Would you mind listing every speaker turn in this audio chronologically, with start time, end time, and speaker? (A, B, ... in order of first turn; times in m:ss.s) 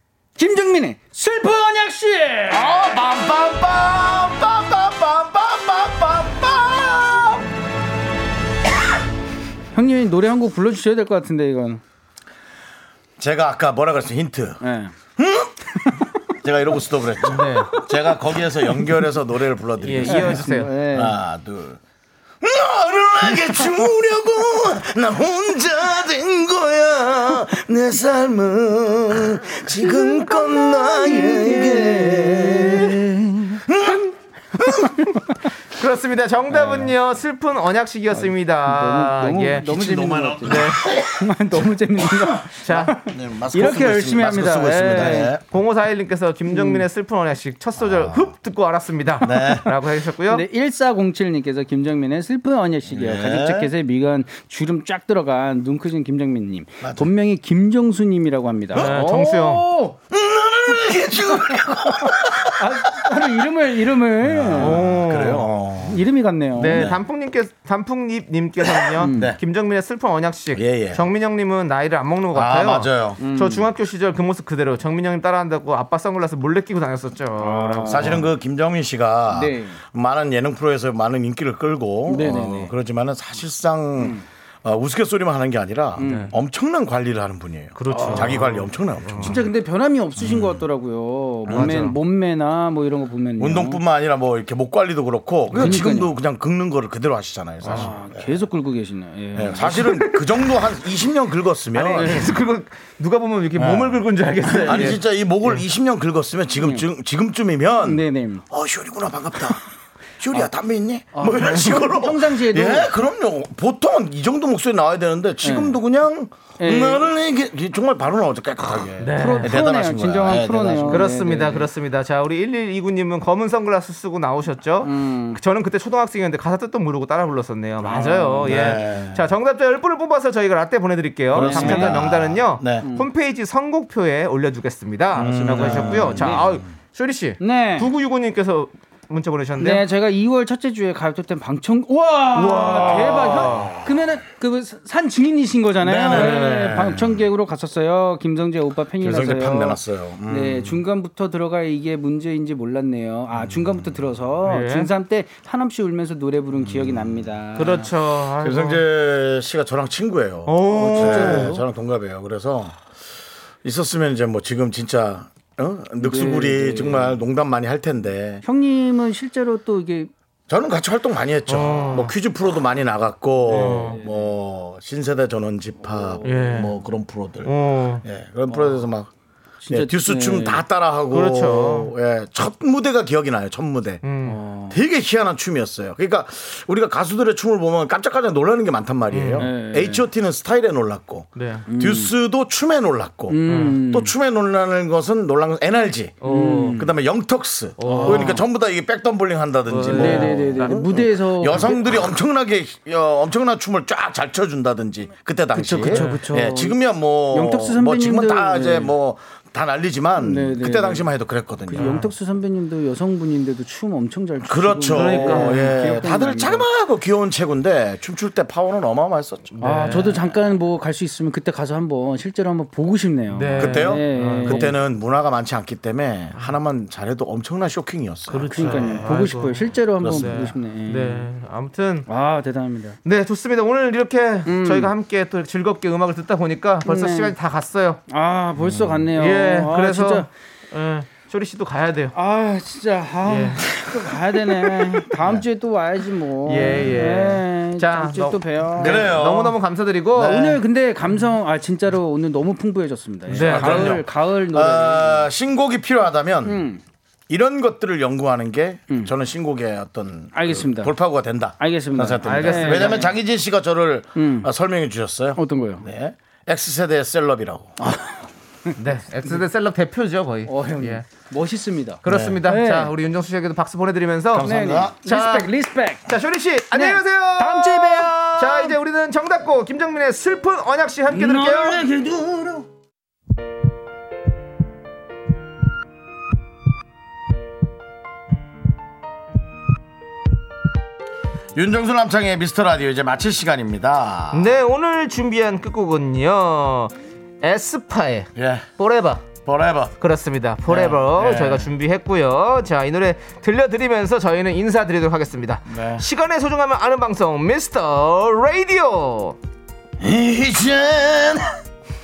0:00.4-0:02.8 A
0:02.5-0:07.4 B
0:09.7-0:11.8 A
0:13.2-0:14.6 B
0:14.6-0:14.9 A
0:15.2-0:15.8 B
0:16.4-0:21.8 B
0:17.3-0:17.8 C
0:19.8-0:20.7 C
0:20.0-0:21.2 A
0:22.4-0:33.0 B
0:30.0-0:33.6 A
0:33.7-0:34.0 B
0:34.6-0:34.9 B
0:34.7-0:35.3 A
0:35.7-0:39.7 C
0:36.5-0:36.9 A
0:38.1-0:45.4 A
0:39.6-0:41.3 B
0:40.4-0:41.0 C
0:42.5-0:43.0 C
0:42.9-0:45.4 B
0:44.9-0:50.4 C
0:46.5-0:46.8 A
0:47.8-0:48.3 B
0:49.2-0:49.7 B
0:50.2-1:00.0 A
0:52.9-0:53.7 B
0:56.8-0:57.1 B
0:58.7-0:59.0 B
0:58.7-0:59.7 C
1:00.1-1:03.3 B
1:02.1-1:04.8 A
1:04.2-1:06.0 B
1:04.5-1:05.5 C
1:05.8-1:06.8 A
1:06.5-1:18.2 C
1:06.6-1:07.0 B
1:09.0-1:09.4 A
1:09.0-1:09.4 B
1:10.5-1:11.1 B
1:12.3-1:13.2 B
1:13.2-1:13.7 A
1:17.4-1:18.2 A
1:17.9-1:29.4 B
1:19.3-1:19.8 A
1:22.1-1:22.7 A
1:26.0-1:26.3 A
1:26.0-1:26.3 C
1:27.8-1:29.4 C
1:27.9-1:28.4 A
1:29.2-1:33.8 A
1:30.2-1:30.6 B
1:31.4-1:31.9 B
1:31.5-1:32.0 C
1:33.4-1:38.4 B
1:35.5-1:35.8 C
1:35.5-1:36.1 A
1:37.6-1:37.9 C
1:37.7-1:40.2 A
1:39.3-1:42.3 B
1:41.7-1:45.0 C
1:43.6-1:44.0 B
1:44.6-1:49.7 B
1:46.6-1:46.8 A
1:47.8-1:48.4 A
1:50.2-2:01.0 B
1:51.1-1:52.9 A
1:55.4-1:55.8 A
1:56.6-1:57.0 A
1:59.0-1:59.5 C
1:59.2-2:01.7 A
2:00.9-2:19.8 C
2:04.8-2:05.4 A
2:07.9-2:08.6 A
2:08.4-2:09.2 B
2:11.3-2:12.9 B
2:11.4-2:12.1 A
2:12.8-2:13.1 A
2:15.2-2:16.6 B
2:15.2-2:16.4 A
2:17.4-2:17.9 A
2:19.6-2:37.9 A
2:22.3-2:23.9 B
2:22.7-2:23.7 C
2:25.8-2:27.3 B
2:26.1-2:26.4 C
2:29.0-2:30.8 B
2:34.4-2:34.9 C
2:36.6-2:37.3 B
2:37.5-2:38.8 C
2:38.4-2:42.8 B
2:40.4-2:41.6 C
2:40.8-2:41.6 A
2:43.6-2:48.4 B
2:46.0-2:47.2 A
2:48.4-2:50.1 A
2:50.5-2:59.1 B
2:51.5-2:52.1 C
2:53.5-2:54.0 C
2:53.5-2:54.3 A
2:55.8-2:56.2 A
2:56.2-2:56.7 C
2:57.4-2:58.0 C
2:58.5-2:58.8 A
2:59.6-3:00.6 A
2:59.7-3:04.0 B
3:01.1-3:01.9 C
3:04.0-3:04.4 C
3:04.2-3:04.8 A
3:04.7-3:32.0 B
3:09.1-3:09.5 C
3:09.4-3:10.0 A
3:11.4-3:11.6 C
3:11.7-3:12.1 A
3:13.3-3:14.1 A
3:13.5-3:13.8 C
3:16.2-3:16.9 C
3:16.2-3:16.9 A
3:17.8-3:18.4 C
3:17.8-3:18.4 A
3:19.7-3:20.8 C
3:19.8-3:22.1 A
3:25.5-3:26.8 A
3:25.8-3:26.3 C
3:27.3-3:28.9 A
3:30.2-3:31.1 A
3:31.7-3:36.7 A
3:31.8-3:32.1 C
3:34.4-3:40.2 B
3:34.9-3:36.3 C
3:39.5-3:40.2 C
3:39.6-3:44.7 A
3:43.3-3:44.7 C
3:43.6-3:49.2 B
3:48.3-3:52.1 C
3:48.5-3:51.3 A
3:50.0-3:50.5 B
3:52.1-3:53.0 A
3:53.0-3:58.0 C
3:54.4-3:54.9 A
3:56.8-3:57.4 A
3:58.1-4:00.3 A
3:58.7-4:02.1 C
4:02.1-4:09.2 A
4:03.2-4:03.6 C
4:03.7-4:05.4 B
4:06.4-4:10.6 C
4:08.8-4:09.6 B
4:10.2-4:15.3 A
4:13.3-4:16.6 B
4:13.3-4:14.0 C
4:16.4-4:16.8 A
4:17.3-4:28.0 B
4:20.3-4:20.9 A
4:21.6-4:23.1 A
4:22.2-4:23.1 C
4:24.2-4:24.5 A
4:25.4-4:25.8 A
4:28.8-4:31.1 C
4:30.4-4:32.9 A
4:32.0-4:34.5 C
4:32.0-4:32.5 B
4:34.3-4:35.0 B
4:34.4-4:36.0 A
4:35.0-4:35.5 C
4:36.0-4:41.8 C
4:36.7-4:38.7 A
4:41.1-4:42.7 B
4:51.5-4:54.6 B
4:54.3-4:59.3 C
4:58.4-4:58.7 B
4:59.4-4:59.9 B
5:00.0-5:09.4 C
5:00.7-5:01.7 B
5:05.7-5:06.0 B
5:10.0-5:11.6 B